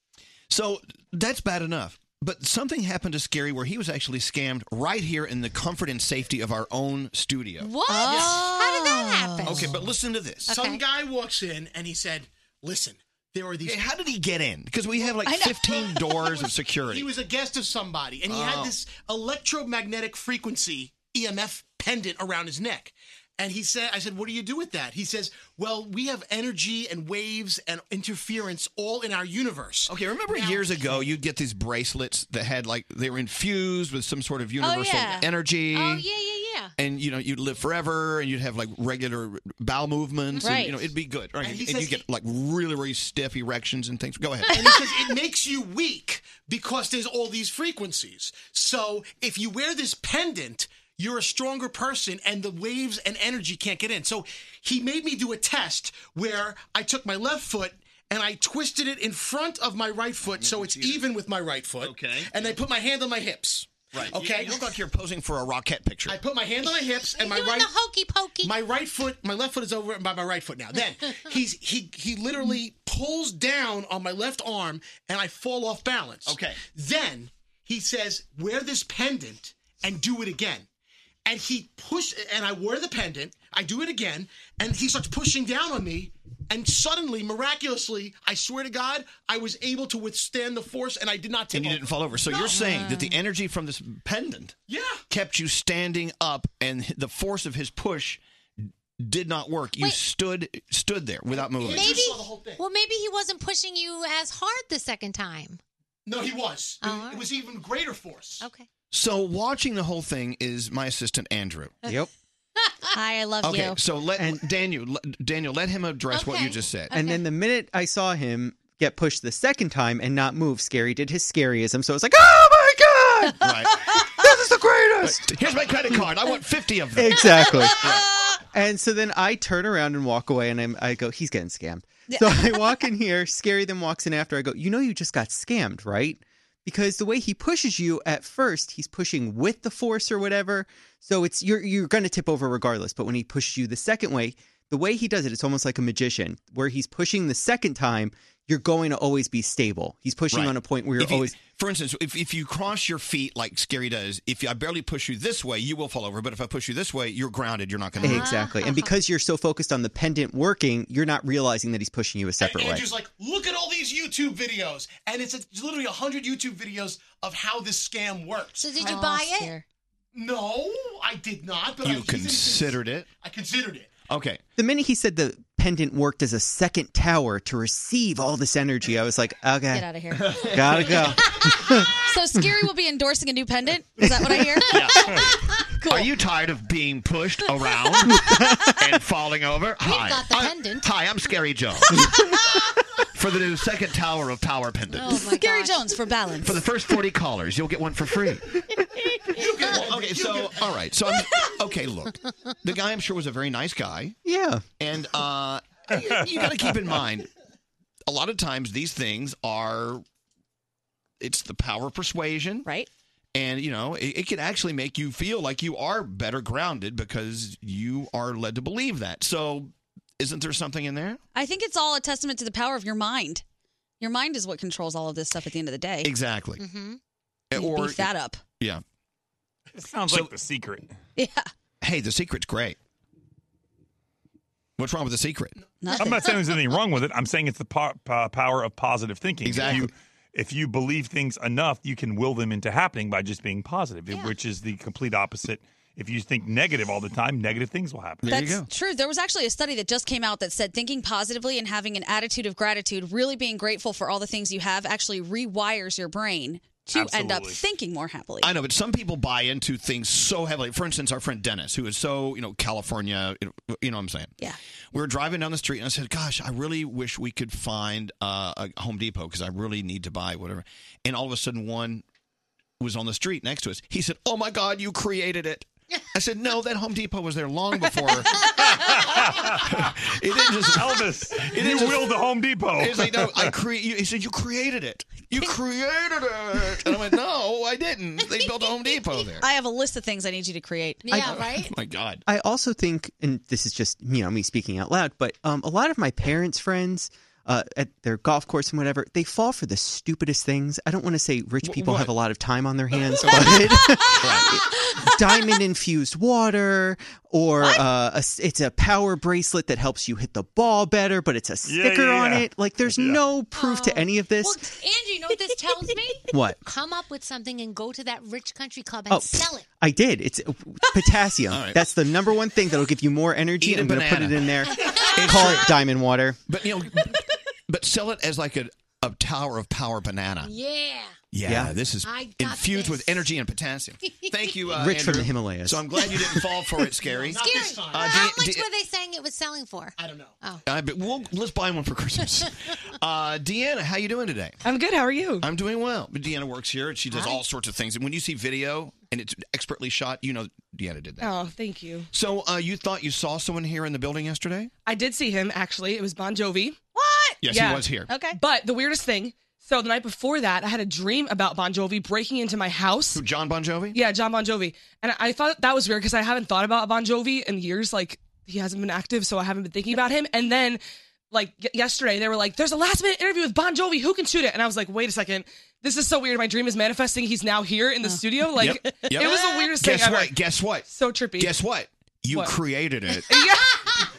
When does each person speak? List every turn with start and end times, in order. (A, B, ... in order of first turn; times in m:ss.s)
0:00.5-0:07.7 A
0:07.6-0:09.8 B
0:07.9-0:09.7 C
0:09.4-0:10.6 A
0:10.5-0:10.8 B
0:10.5-0:13.8 D
0:13.6-0:17.1 A
0:15.2-0:16.2 C
0:16.1-0:31.0 D
0:18.3-0:18.7 A
0:29.9-0:36.0 A
0:34.6-0:35.3 C
0:35.7-0:36.7 B
0:36.8-0:44.7 A
0:40.4-0:40.8 C
0:41.4-0:42.0 D
0:44.5-1:04.7 D
1:00.3-1:01.0 A
1:01.8-1:02.5 A
1:03.9-1:06.2 A
1:06.1-1:07.7 D
1:06.6-1:08.5 B
1:08.4-1:20.7 D
1:16.2-1:16.6 A
1:21.2-1:31.8 D
1:31.5-1:34.6 A
1:32.4-1:33.0 B
1:34.7-1:35.0 D
1:35.1-1:42.0 A
1:41.3-1:42.6 D
1:41.6-1:45.6 B
1:46.0-1:48.4 D
1:46.8-1:47.3 B
1:48.4-1:48.7 B
1:48.9-1:51.8 A
1:51.8-1:52.1 E
1:52.6-1:52.9 B
1:52.9-1:53.8 C
1:53.4-1:57.0 A
1:54.2-1:54.4 E
1:56.1-1:57.2 B
1:56.9-2:06.1 E
2:03.4-2:03.8 A
2:05.0-2:08.0 A
2:06.9-2:08.0 E
2:08.5-2:31.3 E
2:12.1-2:12.8 C
2:30.3-2:38.4 A
2:38.0-2:38.9 B
2:38.0-2:42.8 E
2:42.4-2:48.8 D
2:48.6-2:49.6 B
2:48.8-2:49.6 C
2:50.1-2:54.0 D
2:51.8-2:53.1 A
2:54.1-2:54.4 A
2:54.6-3:01.9 E
2:59.7-3:01.2 C
3:02.0-3:06.1 C
3:04.0-3:04.6 E
3:04.6-3:05.2 A
3:05.8-3:08.2 A
3:08.1-3:08.7 E
3:08.8-3:12.1 A
3:09.8-3:10.9 B
3:13.1-3:15.2 A
3:15.0-3:16.0 B
3:15.0-3:16.6 C
3:16.4-3:18.4 A
3:19.3-3:20.6 D
3:19.7-3:24.2 A
3:24.2-3:24.6 E
3:24.8-3:27.3 A
3:25.9-3:26.7 F
3:28.1-3:30.0 A
3:31.2-3:32.7 A
3:33.3-3:41.2 A
3:41.3-3:43.4 C
3:44.0-3:46.1 C
3:46.0-3:46.6 A
3:46.6-3:47.0 B
3:47.5-3:48.8 A
3:47.5-3:48.4 C
3:49.7-3:50.9 F
3:51.2-3:51.5 C
3:51.8-3:52.8 A
3:54.8-3:55.6 A
3:55.8-3:56.2 C
3:56.0-4:08.4 F
3:59.4-3:59.9 A
4:08.2-4:08.7 A
4:08.3-4:18.5 C
4:16.9-4:17.6 F
4:18.4-4:24.3 A
4:24.9-4:32.0 A
4:32.8-4:49.5 A
4:38.6-4:39.9 F
4:40.6-4:43.5 F
4:49.4-4:51.2 C
4:51.0-4:51.7 B
4:51.1-4:51.5 E
4:51.2-4:52.2 A
4:52.2-5:14.6 E
5:01.6-5:02.1 A
5:03.2-5:04.5 A
5:11.6-5:13.3 F
5:13.5-5:19.7 B
5:16.3-5:16.6 E
5:19.1-5:26.4 E
5:21.5-5:21.8 A
5:23.6-5:25.7 A
5:24.7-5:25.2 B
5:26.5-5:30.5 A
5:30.4-5:31.1 B
5:31.3-5:38.7 A
5:31.4-5:31.7 E
5:32.0-5:33.3 B
5:34.7-5:36.7 E
5:37.0-5:38.2 D
5:37.3-5:40.6 B
5:40.0-5:40.3 D
5:40.6-5:44.6 A
5:44.6-5:45.4 G
5:45.4-5:51.3 A
5:51.2-5:52.1 G
5:52.1-5:54.7 A
5:54.8-5:56.8 G
5:56.9-5:57.4 C
5:57.4-5:58.1 A
5:57.4-6:03.2 G
5:58.1-5:58.4 C
6:03.1-6:04.0 A
6:03.9-6:20.4 G
6:18.5-6:23.5 A
6:20.9-6:21.6 G
6:22.3-6:22.6 G
6:23.1-6:24.0 G